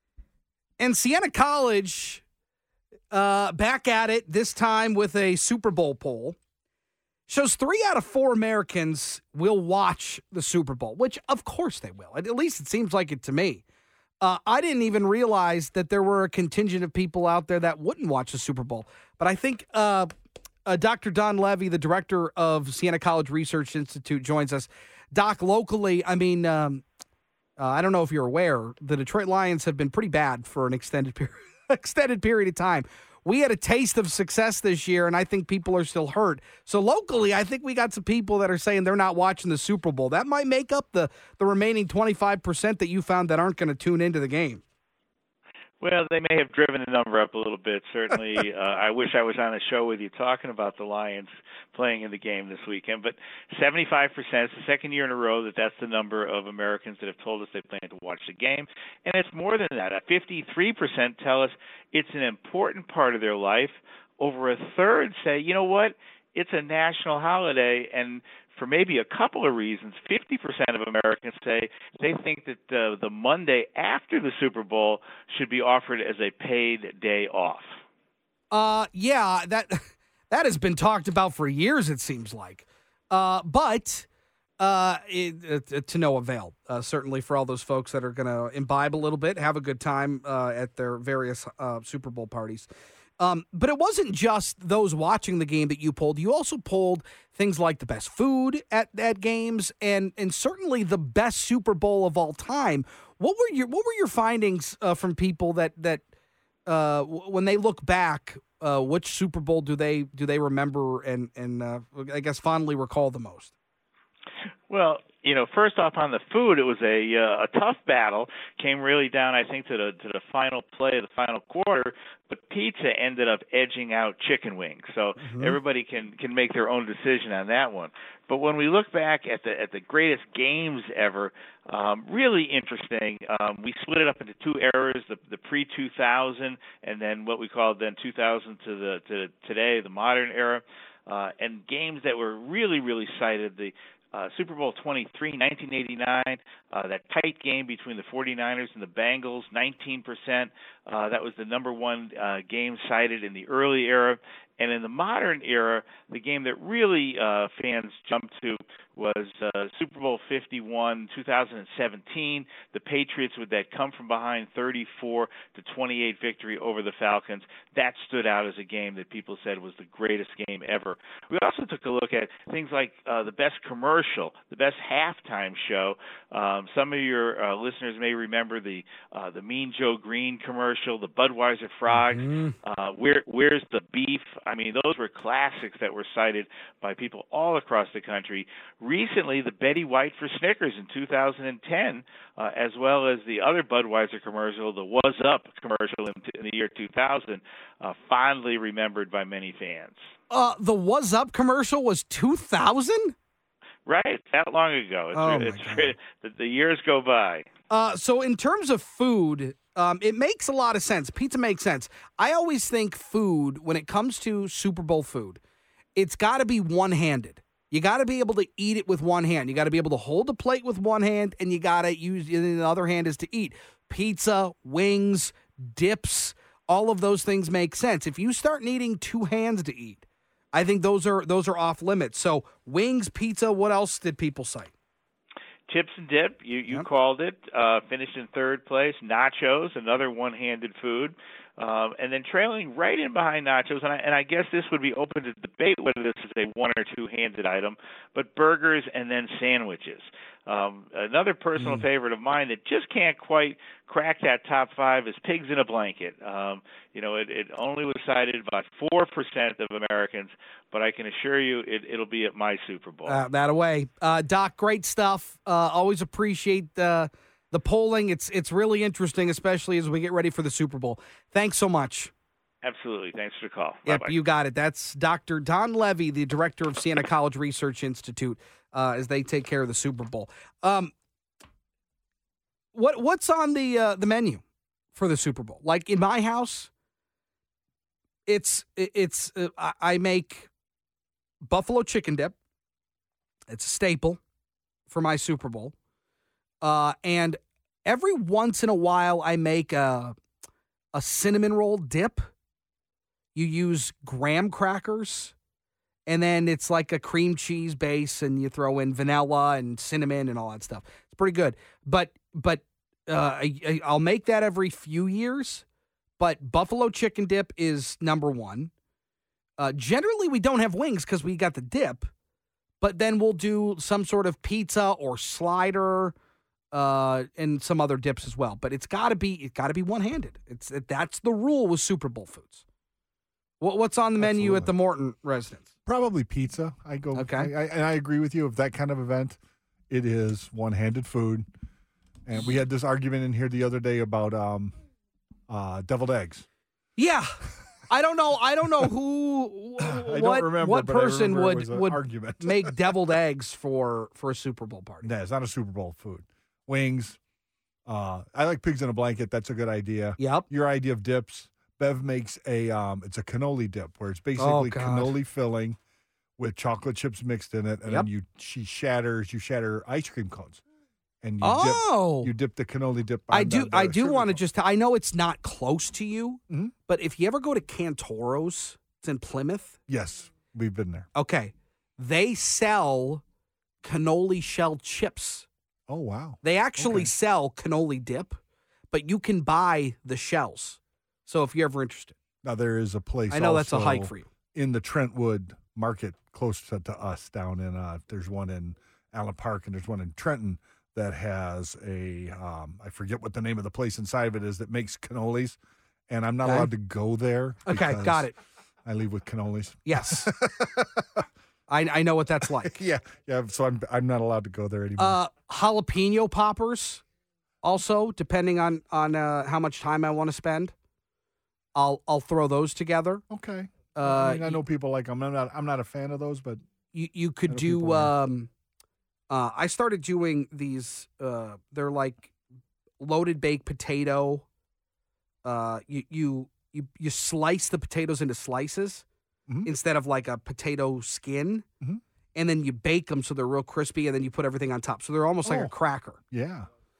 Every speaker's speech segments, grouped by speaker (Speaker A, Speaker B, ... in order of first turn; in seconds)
Speaker A: 0.8-2.2, 3.1-6.4, 7.3-13.6, 14.2-20.1, 20.6-26.8, 27.6-44.6, 78.5-84.1, 84.6-106.1, 106.7-113.5, 125.2-125.6, 181.9-182.6, 200.3-203.2, 205.1-205.9, 207.7-215.4, 216.0-234.7, 263.1-272.1, 273.9-280.9, 282.7-286.7, 288.2-290.5, 291.4-292.4, 293.5-294.2, 294.9-295.7, 296.6-300.2, 300.9-302.3, 303.3-305.3, 306.1-315.6, 316.2-318.7, 319.6-322.1, 322.8-326.1, 326.7-332.6, 333.6-335.7, 337.1-337.5, 347.0-355.1, 360.2-360.5, 364.4-365.1, 371.4-372.3, 373.3-379.8, 381.1-383.2, 383.8-385.5, 386.4-388.4, 388.9-392.1, 393.3-394.3, 406.4-406.7, 407.7-408.3, 409.9-410.3, 411.7-412.8, 415.0-417.0, 417.6-420.7, 421.7-423.2, 423.9-424.6, 426.9-428.5, 429.3-432.3, 433.0-434.4, 435.4-439.0, 439.6-441.6, 442.3-446.2
Speaker B: 45.8-77.7, 114.7-200.0, 203.8-207.5, 235.7-263.2, 272.6-274.1
Speaker C: 334.2-334.7, 335.9-339.4, 339.9-341.5, 342.2-344.7, 345.5-346.4, 349.8-352.9, 355.0-357.2, 357.9-365.8, 366.4-370.6, 371.2-374.4, 379.9-381.1, 385.9-387.1, 392.4-405.6, 406.1-408.3, 408.8-411.2, 412.6-415.2, 423.3-426.6, 427.5-428.1, 445.4-445.7, 446.3-446.7